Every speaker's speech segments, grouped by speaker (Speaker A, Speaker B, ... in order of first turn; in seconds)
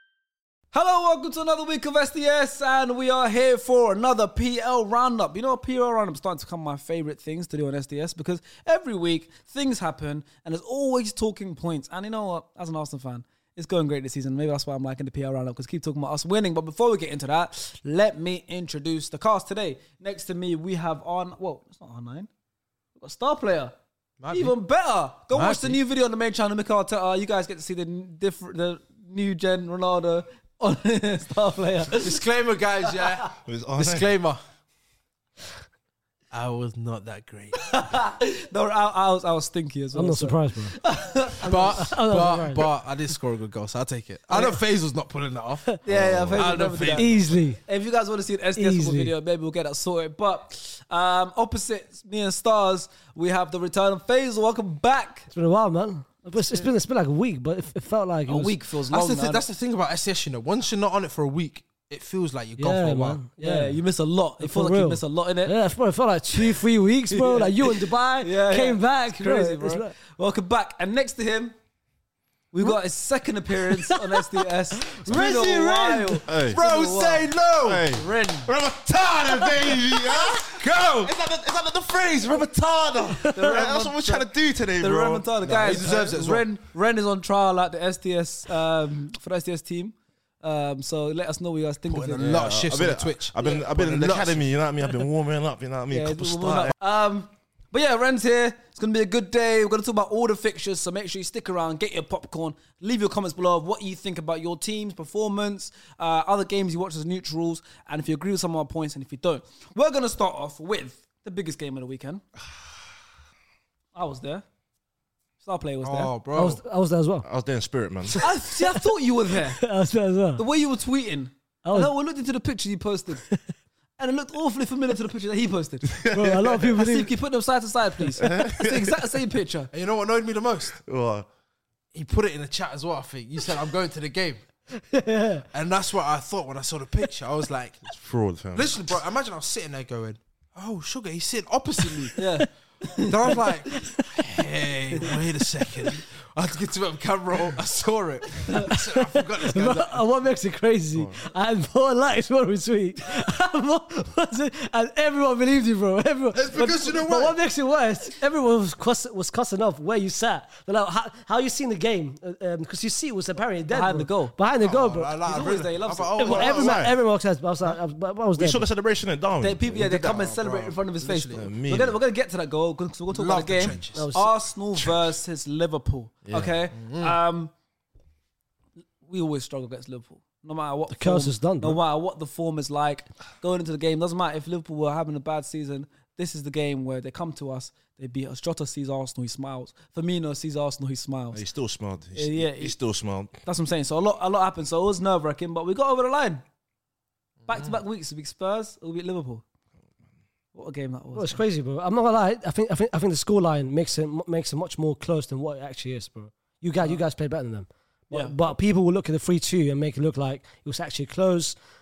Speaker A: 0.7-22.3, 23.0-23.7, 24.3-32.2, 37.5-41.8, 45.8-55.3, 58.3-59.4, 63.4-65.6, 67.1-71.5, 72.5-77.3, 77.9-78.5, 83.3-84.2, 84.8-92.4, 95.9-112.2, 113.9-114.4, 115.4-116.1, 118.2-119.6, 120.4-123.2, 124.0-126.0, 126.8-129.7, 142.1-143.4, 163.7-164.3, 165.2-166.5, 169.4-177.5, 179.0-191.4, 192.1-192.8, 193.4-196.4, 197.5-199.4, 200.5-201.4, 208.1-208.3
Speaker B: 24.2-24.6, 25.3-25.8, 32.0-34.4, 36.3-37.7, 41.4-45.8, 46.3-47.2, 58.9-63.2, 75.1-78.0, 80.2-81.2, 85.4-86.5, 91.9-94.5, 115.8-116.6, 129.7-130.8, 131.9-134.4, 135.5-137.9, 138.5-142.2, 143.0-150.0, 156.3-157.4, 164.6-166.7, 169.8-171.5, 173.1-174.1, 176.7-177.2, 197.4-197.8
Speaker C: 33.4-34.1, 45.9-46.5, 76.3-76.6, 77.6-86.2, 92.2-96.7, 117.2-118.2, 125.9-126.8, 128.2-128.9, 130.8-131.2, 137.9-138.8, 150.9-151.2, 166.3-167.0, 168.3-170.1, 171.3-171.9, 176.3-176.5, 191.3-193.3
Speaker D: 39.9-40.8, 41.4-42.7, 44.3-44.6, 46.9-47.6, 48.5-49.1, 55.3-58.6, 62.6-63.8, 64.4-69.9, 73.7-76.2, 83.2-83.5, 116.3-117.3, 118.1-118.8, 119.5-120.4, 121.6-121.9, 126.1-127.2, 134.7-135.4, 142.0-142.4, 143.3-144.2, 148.5-165.2, 166.2-168.7, 173.9-174.3, 180.9-181.8, 201.1-211.6